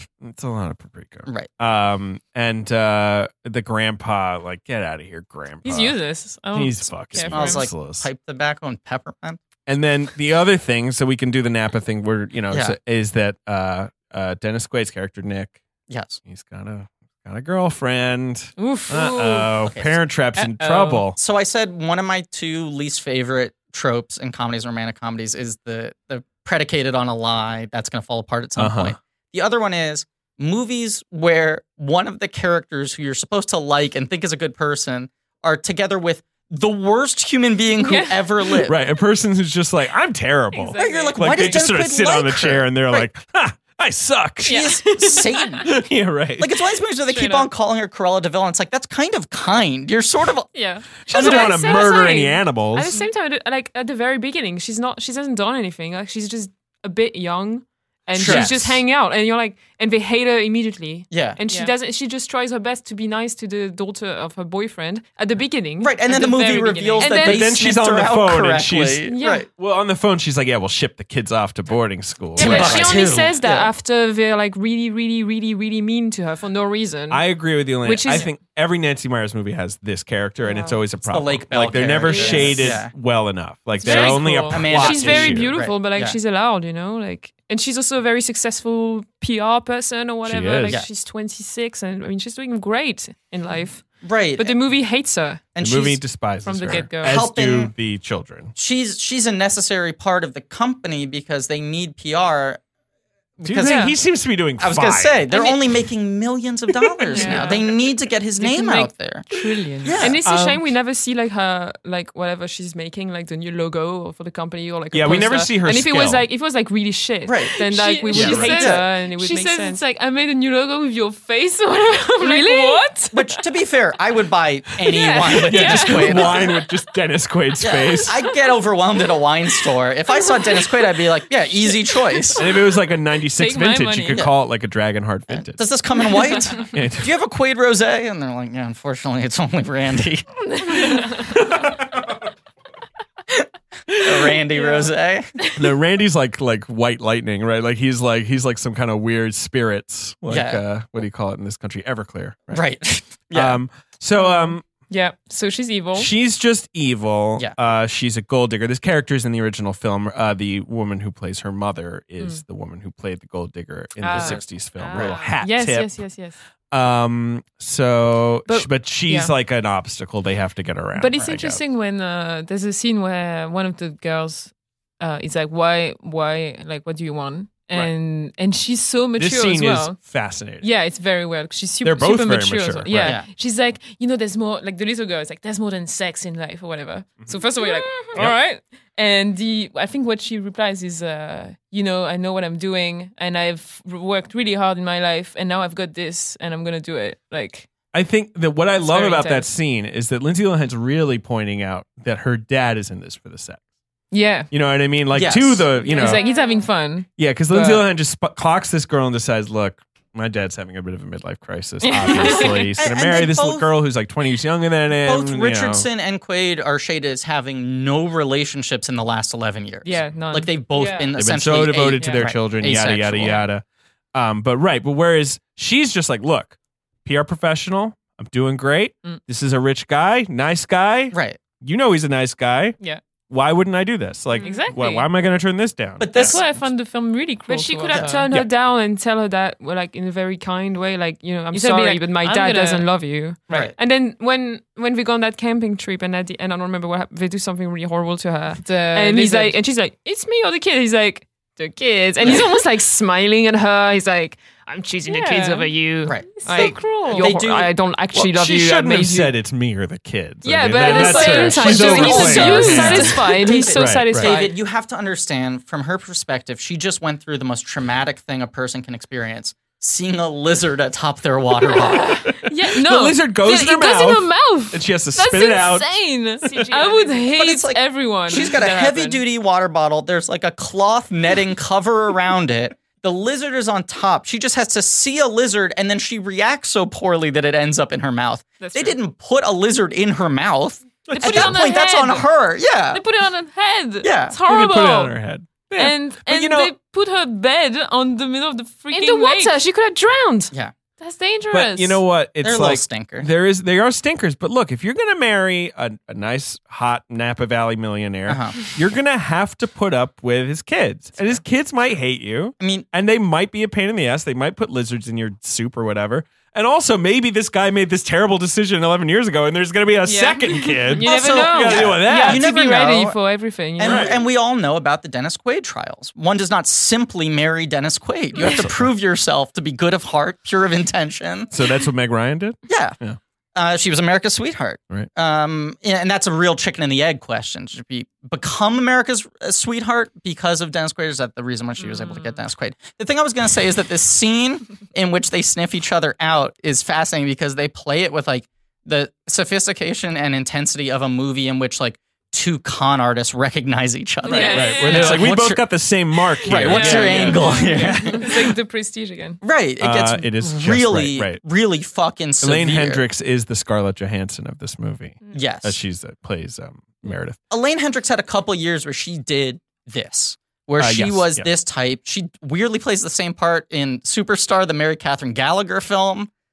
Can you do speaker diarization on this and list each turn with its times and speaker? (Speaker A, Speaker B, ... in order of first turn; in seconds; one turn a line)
Speaker A: 0.2-6.0
Speaker B: 5.6-7.7
Speaker A: 6.5-8.1
Speaker C: 7.3-9.4
Speaker A: 9.7-15.6
Speaker C: 15.9-16.2
Speaker A: 16.2-21.2
Speaker B: 18.6-19.5
Speaker C: 19.6-20.0
Speaker B: 20.4-21.0
Speaker C: 21.2-38.8
Speaker A: 28.6-28.9
Speaker B: 37.8-38.5
Speaker A: 38.6-44.7
Speaker B: 40.5-41.2
Speaker C: 40.8-43.1
Speaker B: 44.4-45.5
Speaker C: 44.4-45.8
Speaker A: 45.6-46.7
Speaker C: 46.4-50.5
Speaker D: 47.1-47.5
Speaker B: 50.5-50.9
Speaker A: 51.0-52.9
Speaker D: 51.1-66.4
Speaker C: 51.1-51.6
Speaker C: 58.1-58.6
Speaker A: 58.2-58.8
Speaker C: 61.1-61.4
Speaker B: 61.5-61.7
Speaker C: 65.8-69.5
Speaker B: 66.1-67.1
Speaker D: 67.0-67.5
Speaker A: 67.1-73.0
Speaker D: 69.1-69.4
Speaker D: 72.3-78.3
Speaker C: 72.4-73.7
Speaker B: 72.4-72.8
Speaker A: 77.1-85.5
Speaker D: 80.4-80.8
Speaker C: 81.0-82.9
Speaker D: 82.1-82.7
Speaker B: 82.2-82.4
Speaker D: 83.8-95.4
Speaker B: 83.8-84.6
Speaker C: 83.9-86.2
Speaker A: 90.2-90.8
Speaker C: 94.0-94.6
Speaker C: 95.5-96.0
Speaker A: 95.6-98.5
Speaker B: 96.4-97.2
Speaker C: 97.0-97.7
Speaker C: 98.5-102.6
Speaker C: 103.4-103.9
Speaker A: 103.4-105.6
Speaker C: 104.6-109.3
Speaker A: 107.1-107.5
Speaker B: 107.1-107.6
Speaker D: 107.2-107.6
Speaker B: 108.4-110.6
Speaker C: 109.8-110.2
Speaker D: 110.0-119.8
Speaker A: 114.9-116.3
Speaker C: 117.2-117.5
Speaker B: 117.6-123.3
Speaker A: 118.1-118.6
Speaker C: 118.5-118.8
Speaker D: 122.2-122.9
Speaker C: 123.1-126.5
Speaker B: 124.9-126.5
Speaker A: 125.5-128.2
Speaker C: 127.6-132.5
Speaker B: 130.2-130.7
Speaker A: 132.3-135.7
Speaker B: 133.3-134.2
Speaker C: 135.3-140.9
Speaker B: 136.1-136.4
Speaker A: 136.7-137.1
Speaker B: 140.6-141.4
Speaker A: 141.3-142.1
Speaker C: 143.9-145.3
Speaker B: 143.9-145.6
Speaker A: 145.5-152.6
Speaker C: 150.3-150.6
Speaker C: 152.5-153.6
Speaker A: 153.3-154.6
Speaker B: 154.2-156.1
Speaker A: 155.9-166.0
Speaker B: 164.0-166.4
Speaker C: 164.0-165.1
Speaker A: 166.7-171.6
Speaker B: 168.5-169.3
Speaker B: 170.9-180.0
Speaker A: 179.2-180.7
Speaker B: 180.6-197.7
Speaker A: 181.8-183.2
Speaker C: 183.0-183.3
Speaker D: 187.6-188.1
Speaker A: 188.1-188.4
Speaker A: 197.9-203.6
Speaker B: 198.8-199.5
Speaker B: 204.1-204.5
Speaker A: 204.5-206.2
Speaker C: 205.1-205.7
Speaker D: 205.8-206.7
Speaker B: 205.8-207.8
Speaker A: 207.2-215.9
Speaker B: 211.8-212.7
Speaker C: 212.8-213.7
Speaker C: 215.0-223.5
Speaker B: 219.8-221.1
Speaker A: 221.1-232.8
Speaker B: 222.0-222.2
Speaker C: 231.1-231.4
Speaker A: 233.3-236.4
Speaker D: 234.4-234.7
Speaker B: 234.4-235.1
Speaker C: 236.0-236.6
Speaker B: 236.1-238.2
Speaker D: 237.5-259.3
Speaker C: 237.9-238.2
Speaker B: 241.5-242.9
Speaker B: 248.6-249.6
Speaker B: 252.2-252.5
Speaker B: 255.1-255.7
Speaker C: 256.0-257.7
Speaker B: 256.4-257.3
Speaker A: 258.1-263.2
Speaker D: 260.4-264.5
Speaker B: 260.8-263.6
Speaker C: 261.7-272.2
Speaker A: 263.7-264.3
Speaker B: 272.0-279.2
Speaker A: 272.4-276.7
Speaker D: 276.4-277.3
Speaker C: 277.3-293.0
Speaker B: 288.6-289.0
Speaker A: 291.1-291.7
Speaker B: 291.1-292.3
Speaker B: 292.9-295.1
Speaker C: 294.0-294.3
Speaker A: 294.4-296.7
Speaker B: 295.7-299.6
Speaker D: 298.9-300.5
Speaker B: 301.0-302.0
Speaker A: 301.5-322.5
Speaker C: 302.4-303.3
Speaker C: 308.3-308.6
Speaker C: 312.6-312.8
Speaker B: 320.1-323.0
Speaker D: 321.0-324.0
Speaker C: 321.0-323.2
Speaker C: 323.8-331.5
Speaker A: 323.8-324.2
Speaker A: 328.4-328.9
Speaker A: 331.5-333.2
Speaker C: 332.7-332.9
Speaker C: 333.5-355.8
Speaker B: 341.8-342.4
Speaker B: 354.2-355.2
Speaker D: 354.2-355.0
Speaker A: 354.4-358.0
Speaker C: 356.4-358.6
Speaker B: 356.5-359.4
Speaker D: 356.7-357.8
Speaker C: 359.4-363.0
Speaker A: 359.8-361.4
Speaker A: 362.4-367.4
Speaker C: 365.3-365.8
Speaker C: 367.5-376.3
Speaker A: 370.8-371.5